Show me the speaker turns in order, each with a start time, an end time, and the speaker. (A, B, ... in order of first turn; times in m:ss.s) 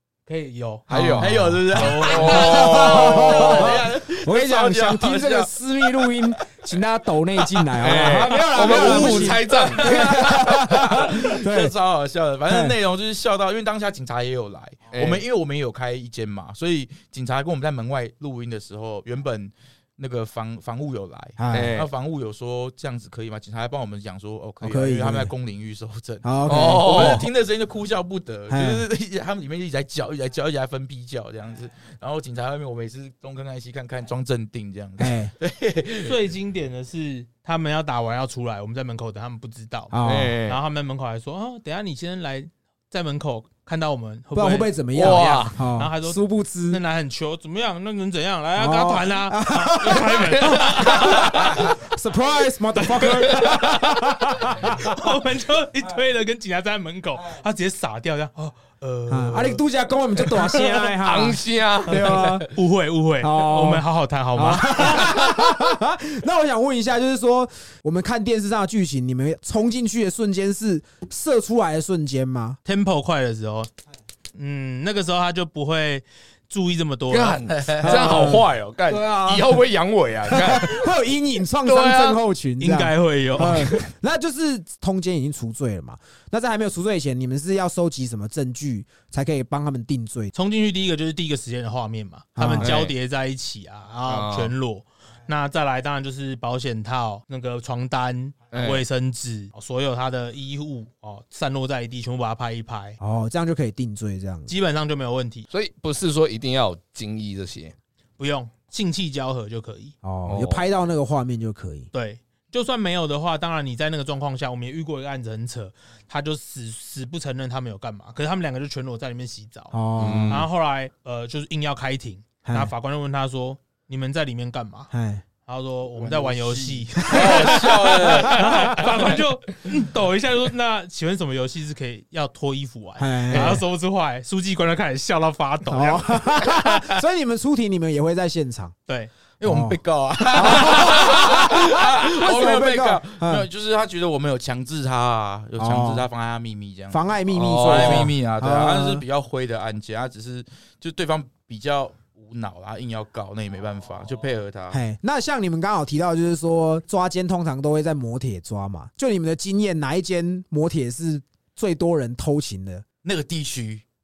0:00.3-0:00.9 A
0:00.9-0:11.7 B
0:00.9-0:01.5 C
0:01.2-0:05.5 D
0:01.7-0:02.4 A
0:02.1-0:03.8 C
0:07.8-0:10.6 C
0:08.2-0:10.0 A
0:08.8-0:36.2 D
0:12.5-0:12.7 B
0:14.9-0:15.2 C
0:21.4-0:21.8 B
0:21.5-0:21.9 C
0:24.6-0:25.3 B
0:26.2-0:27.3 B
0:26.5-0:27.3 C
0:28.5-0:28.8 B
0:35.0-0:35.3 B
0:36.0-0:51.7 A
0:39.9-0:40.4 B
0:40.0-0:40.6 C
0:44.3-0:46.8 B
0:44.9-0:45.6 C
0:48.6-0:55.0 B
0:50.4-0:51.4 C
0:53.0-0:53.8 A
0:53.3-0:53.6 C
0:54.4-0:59.6 A
0:59.1-1:02.5 B
1:00.8-1:02.4 C
1:02.0-1:05.2 A
1:03.2-1:03.8 B
1:04.3-1:12.6 B
1:12.6-1:13.7 A
1:14.3-1:18.3 A
1:17.1-1:20.9 C
1:17.5-1:18.2 D
1:17.8-1:18.5 B
1:18.9-1:19.4 A
1:20.3-1:30.3 B
1:21.6-1:22.2 C
1:22.6-1:23.9 A
1:30.3-1:43.0 A
1:32.3-1:32.7 B
1:32.6-1:32.9 C
1:34.1-1:34.5 C
1:38.5-1:38.8 C
1:43.0-1:44.5 B
1:44.5-1:45.4 A
1:45.5-1:47.8 C
1:48.2-1:49.9 A
1:50.0-1:51.9 B
1:50.2-1:50.6 C
1:51.9-1:59.8 A
1:59.7-2:00.5 B
2:00.0-2:00.4 C
2:00.3-2:04.9 A
2:02.4-2:02.7 B
2:04.9-2:05.2 B
2:05.4-2:16.8 A
2:06.0-2:08.9 D
2:07.0-2:08.8 B
2:13.0-2:13.6 B
2:15.7-2:18.7 B
2:19.4-2:34.8 D
2:19.4-2:19.8 B
2:20.3-2:23.4 B
2:25.6-2:26.1 B
2:26.9-2:29.0 B
2:27.4-2:28.1 C
2:34.7-2:42.8 B
2:43.0-2:43.8 D